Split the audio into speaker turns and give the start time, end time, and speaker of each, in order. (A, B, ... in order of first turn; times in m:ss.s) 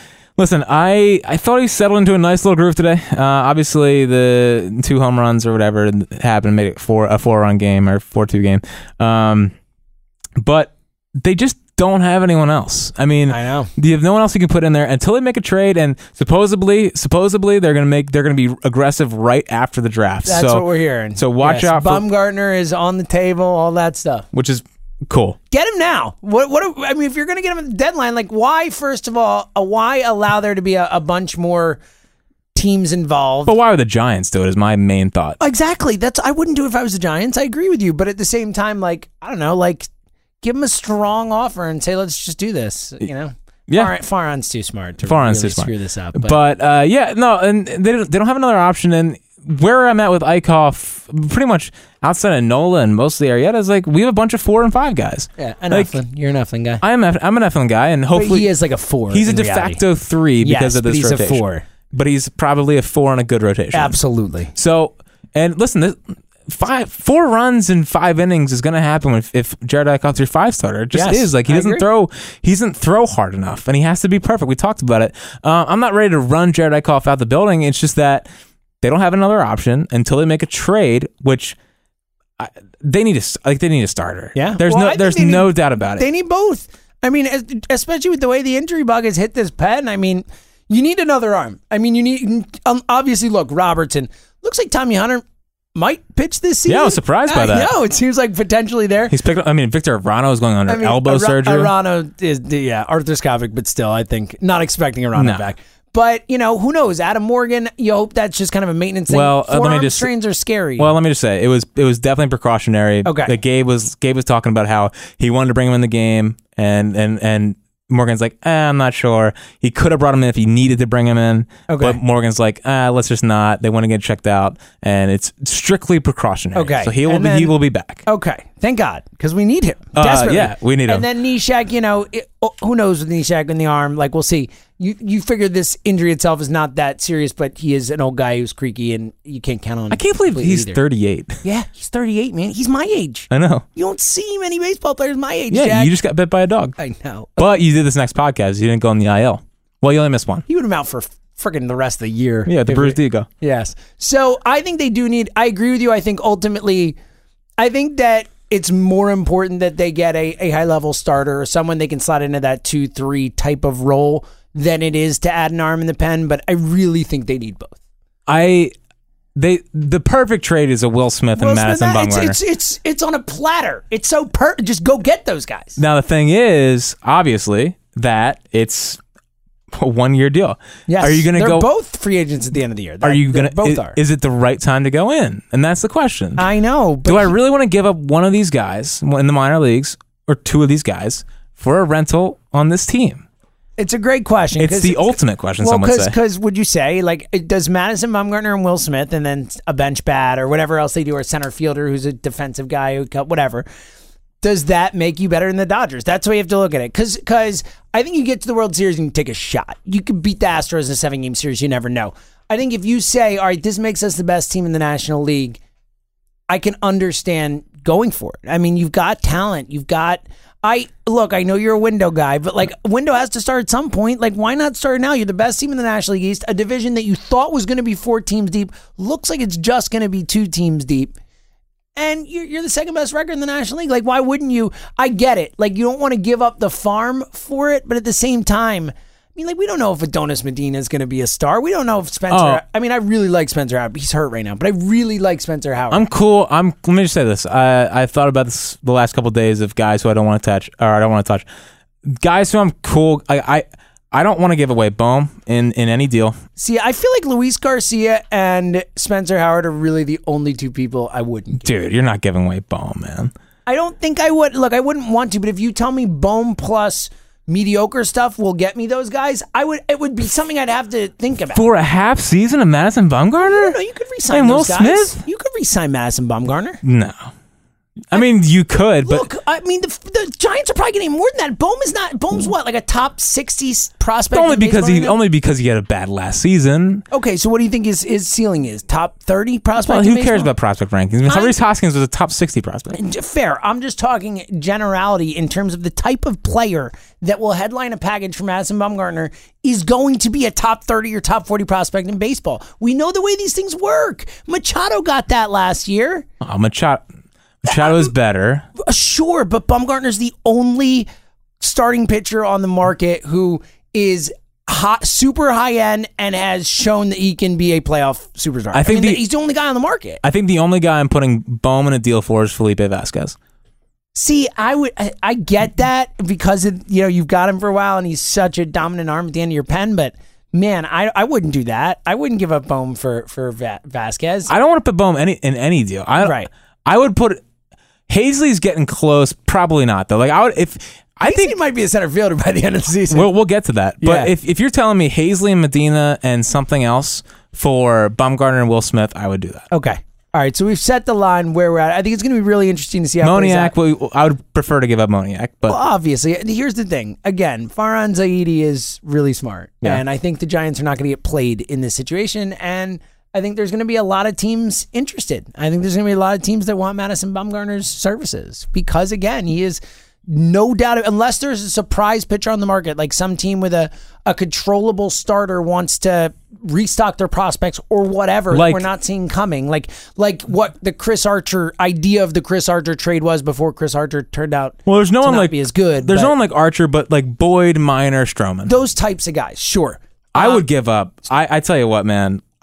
0:00.4-0:09.5 A
0:10.4-0:22.0 A
0:13.3-0:13.7 B
0:20.3-0:24.3 B
0:24.3-0:25.4 A
0:25.5-0:31.8 B
0:32.5-0:33.6 B
0:33.5-0:35.4 A
0:35.4-0:39.9 B
0:40.4-0:46.4 B
0:43.7-0:43.9 A
0:45.0-0:56.0 A
0:55.4-0:56.8 B
0:56.8-0:58.5 A
0:58.1-0:59.8 B
0:59.1-1:04.0 A
1:00.4-1:01.7 B
1:03.7-1:04.5 B
1:04.6-1:18.3 A
1:10.9-1:11.9 B
1:18.8-1:21.6 A
1:22.4-1:26.1 A
1:24.4-1:35.2 B
1:35.8-1:39.1 B
1:36.7-1:37.7 A
1:39.1-1:41.7 A
1:40.7-1:50.9 B
1:45.2-1:45.4 A
1:49.1-1:50.1 A
1:50.8-2:08.0 A
1:53.0-1:53.4 B
2:01.7-2:02.0 B
2:06.5-2:20.8 B
2:10.0-2:11.1 A
2:19.9-2:21.4 A
2:21.4-2:26.0 B
2:23.3-2:23.6 A
2:25.5-2:26.8 A
2:26.8-2:27.6 B
2:27.4-2:30.4 A
2:30.5-2:37.0 B
2:32.5-2:33.3 A
2:37.6-2:47.8 B
2:48.3-2:48.7 A
2:49.4-2:52.4 A
2:51.4-2:55.8 B
2:55.8-2:59.0 A
2:59.7-3:01.7 A
3:00.9-3:04.0 B
3:03.0-3:06.4 A
3:06.4-3:07.3 B
3:07.0-3:13.2 A
3:13.8-3:23.6 B
3:14.6-3:16.1 A
3:24.4-3:35.6 B
3:36.5-3:51.1 B
3:52.0-4:06.0 B
4:02.3-4:02.6 A
4:05.9-4:11.4 A
4:12.0-4:16.4 A
4:16.6-4:21.6 B
4:21.6-4:23.3 A
4:23.7-4:31.6 B
4:31.5-4:33.8 A
4:33.4-4:36.8 B
4:34.3-4:35.2 A
4:36.8-4:37.3 A
4:38.1-4:39.3 A
4:39.0-4:45.2 B
4:44.3-4:47.0 A
4:47.1-4:50.5 B
4:49.8-4:53.0 A
4:51.3-4:51.6 B
4:52.9-5:06.3 B
5:06.4-5:07.0 A
5:07.6-5:08.7 A
5:07.7-5:08.1 B
5:08.8-5:11.1 B
5:11.6-5:20.2 B
5:18.7-5:19.2 A
5:20.2-5:23.4 A
5:24.2-5:34.5 B
5:34.5-5:37.4 A
5:36.2-5:36.5 B
5:38.1-5:41.6 A
5:41.2-5:43.3 B
5:43.1-5:49.7 A
5:44.0-5:44.3 B
5:49.7-5:53.7 B
5:53.2-5:55.8 A
5:55.7-6:26.3 B
6:18.5-6:18.9 A
6:24.9-6:28.7 A
6:28.6-6:30.6 B
6:30.3-6:32.4 A